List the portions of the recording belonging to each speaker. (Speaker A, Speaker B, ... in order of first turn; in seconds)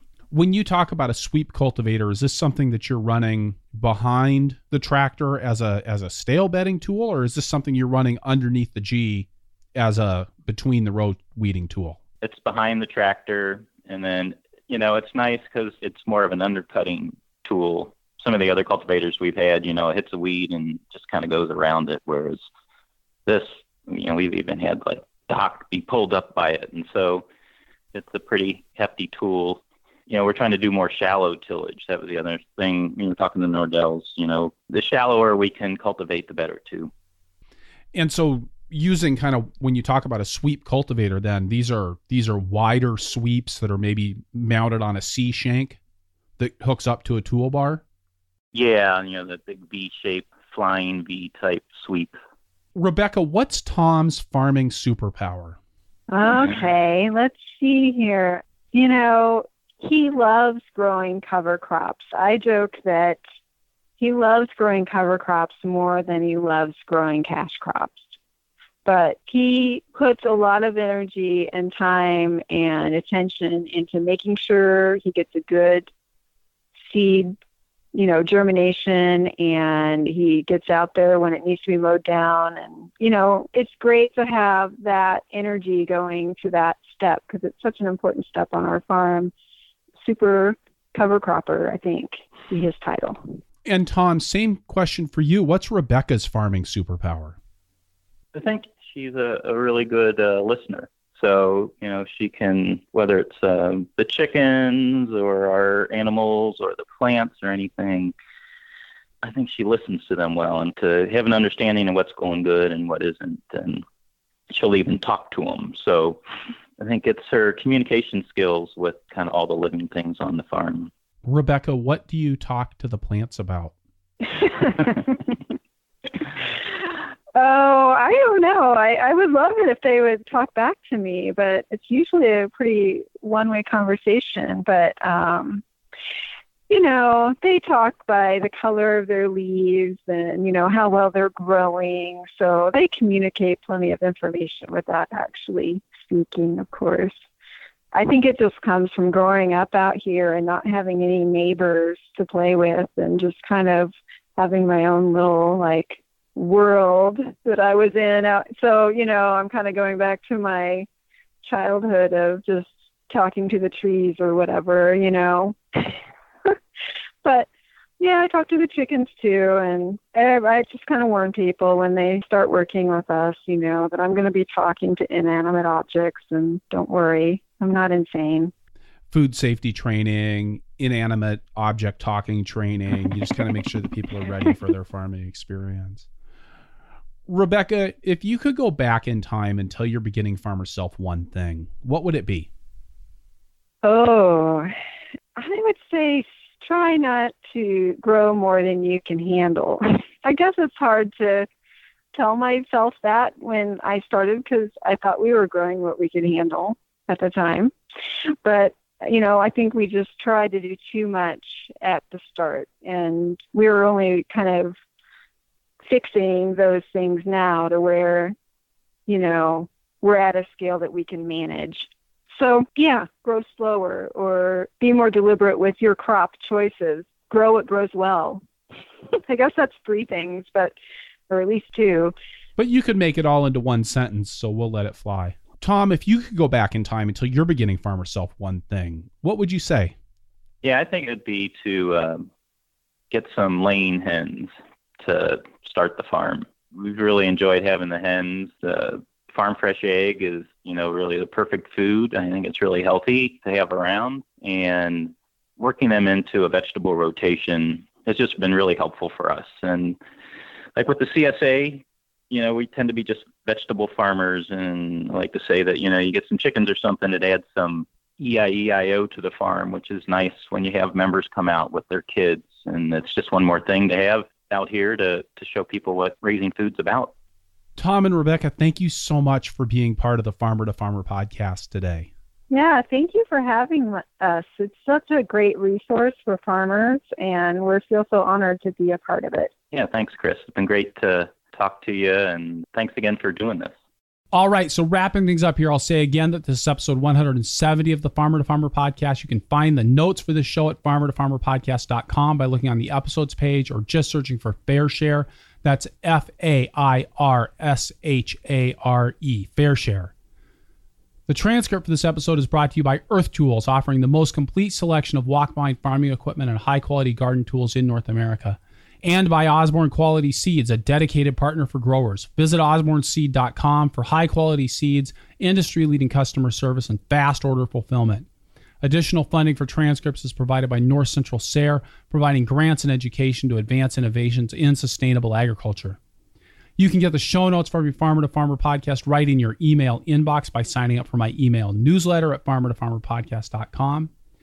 Speaker A: 0.3-12.0, 37.9-45.8, 46.4-47.8, 52.8-55.6, 93.6-97.4, 121.2-123.7, 179.1-186.1, 187.3-192.5, 232.6-239.9, 277.8-282.1, 294.3-310.1, 311.3-328.3, 328.8-336.0, 336.8-344.1
Speaker B: 12.2-22.4, 23.3-27.3, 27.9-36.9, 48.5-52.2, 98.3-108.1, 109.2-113.8, 114.5-116.2, 116.8-120.9, 240.6-242.3, 243.1-260.0, 260.8-277.1, 289.7-293.7
Speaker C: 56.1-63.2, 64.0-68.2, 68.8-75.9, 76.8-77.3, 77.9-89.3, 90.0-93.3, 127.3-135.6, 136.7-147.3, 147.9-160.9, 161.4-166.6, 168.0-178.5, 193.8-194.7, 195.4-201.5, 202.1-207.7, 208.4-214.8, 215.8-218.3, 219.1-228.4, 229.3-230.8, 231.3-232.1, 282.5-289.5